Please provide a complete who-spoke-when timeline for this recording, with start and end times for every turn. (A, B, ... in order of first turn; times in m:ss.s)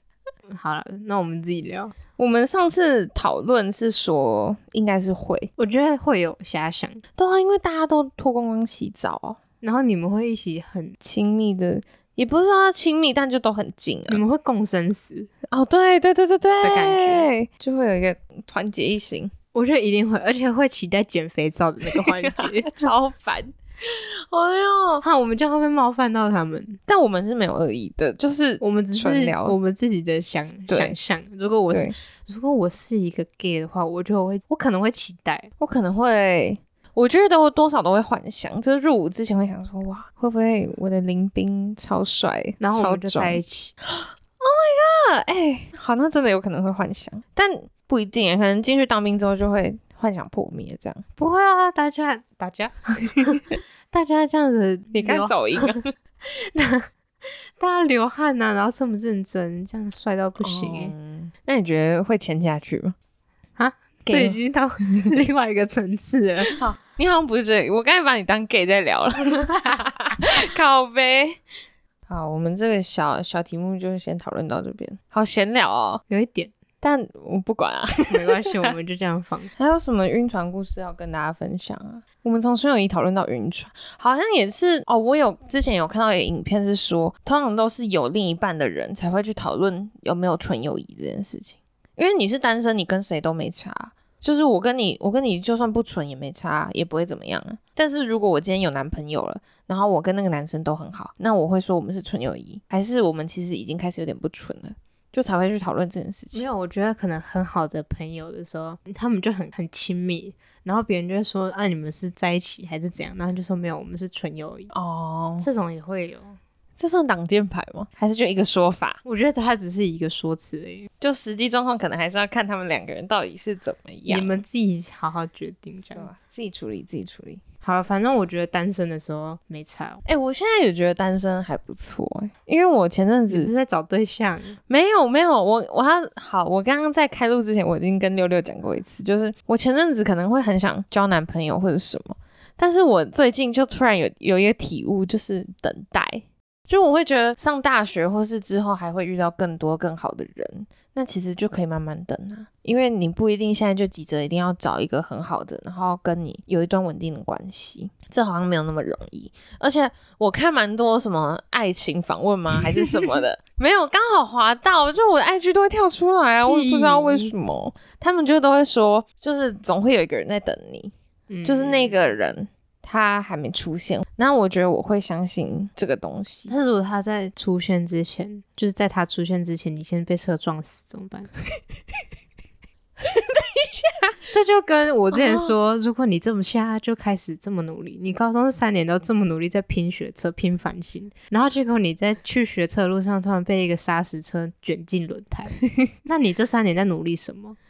0:00.5-0:02.0 A
0:02.2-0:05.5 B
0:05.6-0:07.0 A
0:07.2-0:09.4 B
0:09.6-0:11.0 A
0:11.0-0:14.2 B
0:14.1-0:15.3 A
0:15.5-0:19.3 B
0:16.6-0:17.3 A
0:19.5-0:22.9 A
0:21.9-0:25.0 B
0:25.0-0:26.8 A
0:26.9-0:29.6 B
0:28.6-0:35.5 A
0:30.7-0:31.0 B
0:31.7-0:32.0 B
0:35.6-0:51.0 B
0:42.6-0:43.8 A
0:51.2-1:00.9 A
0:54.9-0:55.9 B
1:00.4-1:03.0 B
1:03.6-1:06.6 A
1:04.1-1:04.4 B
1:06.6-1:11.4 B
1:12.1-1:16.0 B
1:16.1-1:16.5 A
1:16.8-1:18.4 B
1:18.1-1:19.5 A
1:19.6-1:46.5 B
1:46.3-1:54.7 A
1:54.7-1:55.5 B
1:55.4-1:56.4 A
1:56.8-1:59.0 B
1:59.0-2:00.9 A
2:01.0-2:04.4 B
2:04.1-2:06.1 A
2:05.9-2:07.4 B
2:07.6-2:10.0 A
2:10.0-2:13.5 B
2:13.3-2:14.6 A
2:14.7-2:50.9 B
2:46.5-2:47.3 A
2:51.3-2:52.1 A
2:51.4-2:56.5 B
2:56.5-3:01.3 A
3:03.0-3:04.2 B
3:04.3-3:17.6 A
3:05.1-3:05.5 B